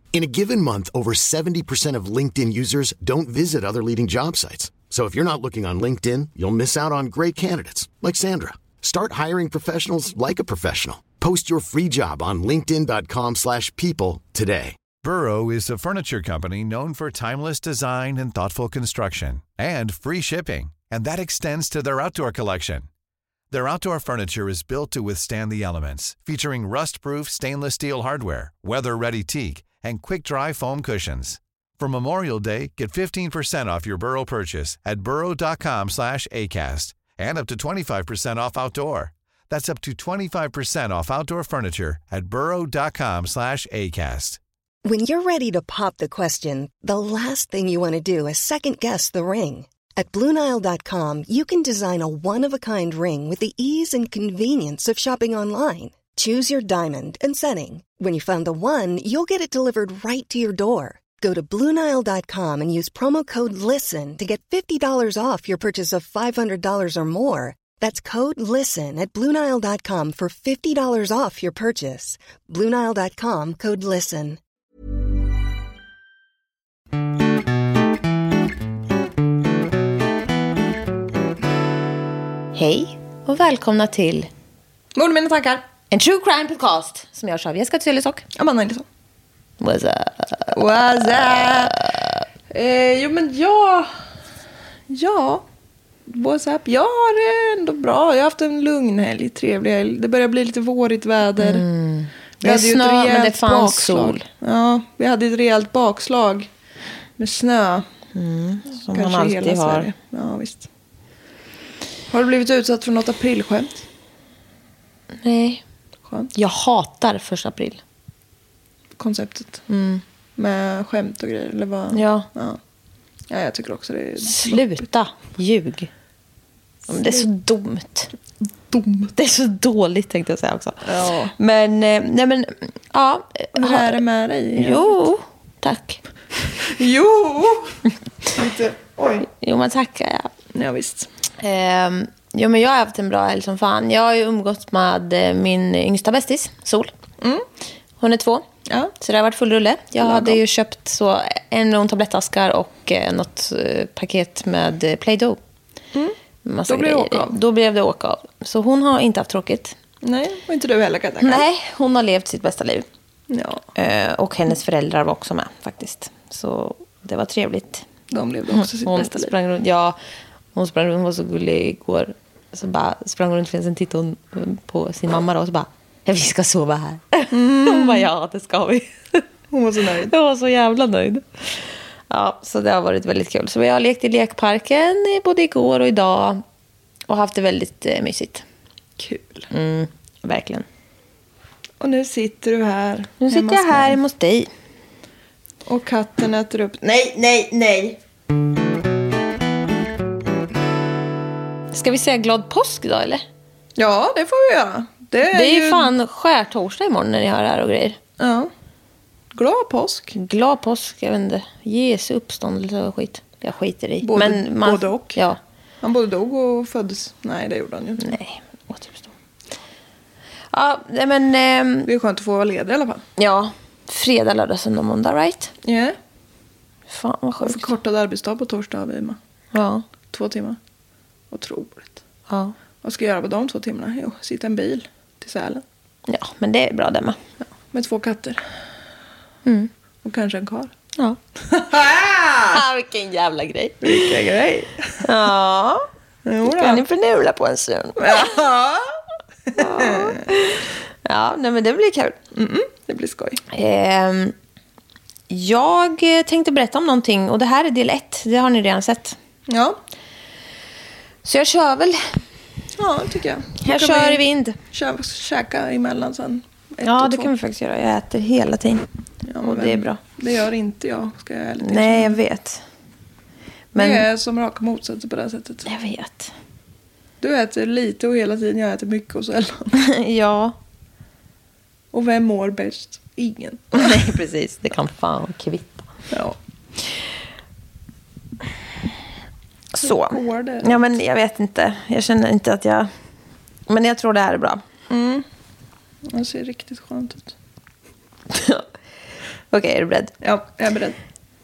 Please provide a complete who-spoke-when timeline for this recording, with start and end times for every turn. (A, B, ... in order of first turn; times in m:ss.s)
0:00.1-0:14.8 A
0:15.0-0:22.9 B
0:23.5-0:44.4 B
0:44.8-1:14.4 C
1:22.5-1:24.3 D
1:25.0-1:25.7 E
1:25.9-1:28.2 D
1:28.4-1:28.9 E
1:29.6-1:30.6 D
1:30.5-1:31.8 E
1:31.3-1:32.2 D
1:32.5-1:33.9 E
1:34.9-1:35.4 E
1:36.1-1:41.6 E
1:41.4-1:44.2 D
1:42.4-1:46.5 E
1:47.2-1:47.9 E
1:48.2-1:49.9 D
1:48.8-1:50.7 E
1:52.1-1:53.8 E
1:55.2-1:55.6 D
1:56.1-1:56.3 E
1:56.4-1:57.8 D
1:59.0-1:59.6 E
1:59.7-2:00.0 D
2:00.4-2:02.6 E
2:01.9-2:02.3 D
2:03.3-2:04.6 E
2:04.2-2:05.9 D
2:06.9-2:08.1 D
2:08.7-2:09.1 E
2:09.2-2:14.0 D
2:10.9-2:11.4 E
2:13.6-2:15.0 E
2:14.6-2:16.0 D
2:16.6-2:17.8 E
2:18.3-2:19.3 E
2:19.3-2:20.3 D
2:20.5-2:21.1 E
2:21.4-2:26.9 D
2:27.2-2:27.5 E
2:28.0-2:28.4 D
2:29.0-2:35.4 D
2:30.0-2:30.4 E
2:36.4-2:39.8 D
2:36.7-2:37.4 E
2:40.0-2:41.4 E
2:41.2-2:42.9 D
2:43.3-2:43.6 E
2:43.8-2:47.8 D
2:48.1-2:49.3 E
2:48.5-2:50.0 D
2:50.6-2:59.2 D
2:57.3-2:58.1 E
2:59.5-3:00.1 E
3:00.1-3:06.4 D
3:07.1-3:08.4 D
3:09.0-3:09.5 E
3:09.5-3:10.6 D
3:11.8-3:14.0 E
3:13.2-3:14.5 D
3:15.7-3:18.0 E
3:21.7-3:23.2 D
3:23.8-3:25.9 E
3:25.3-3:28.0 D
3:28.2-3:28.5 E
3:29.3-3:30.2 E
3:30.2-3:35.4 D
3:34.0-3:35.2 E
3:35.8-3:38.1 E
3:38.0-3:39.1 D
3:40.5-3:41.9 D
3:41.9-3:43.0 E
3:43.2-3:45.5 D
3:45.6-3:46.0 E
3:46.9-3:47.7 D
3:47.4-3:49.2 E
3:49.5-3:49.8 D
3:50.1-3:50.6 E
3:51.3-3:52.0 E
3:52.3-3:52.6 D
3:52.8-3:55.6 E
3:56.1-3:57.2 D
3:57.7-3:58.4 E
4:00.0-4:00.7 E
4:01.6-4:02.5 E
4:02.4-4:04.1 D
4:03.8-4:05.0 E
4:05.0-4:05.8 D
4:06.2-4:06.8 E
4:06.5-4:08.4 D
4:08.0-4:08.8 E
4:09.6-4:12.2 D
4:09.6-4:10.2 E
4:12.3-4:13.4 E
4:13.5-4:14.3 D
4:15.3-4:19.2 D
4:19.5-4:19.8 E
4:21.2-4:22.0 D
4:22.8-4:27.3 E
4:23.6-4:24.6 D
4:26.8-4:28.9 D
4:29.3-4:32.2 E
4:29.4-4:30.0 D
4:31.6-4:32.6 D
4:33.8-4:34.1 D
4:33.8-4:35.7 E
4:35.7-4:36.3 D
4:37.2-4:39.8 E
4:39.8-4:40.6 D
4:41.9-4:44.0 E
4:43.7-4:45.8 D
4:46.1-4:46.4 E
4:49.7-4:52.9 D
4:49.8-4:50.8 E
4:53.7-4:54.6 D
4:54.9-4:55.3 E
4:56.1-4:57.3 E
4:58.3-4:58.6 D
4:59.5-5:00.1 D
5:00.2-5:01.0 E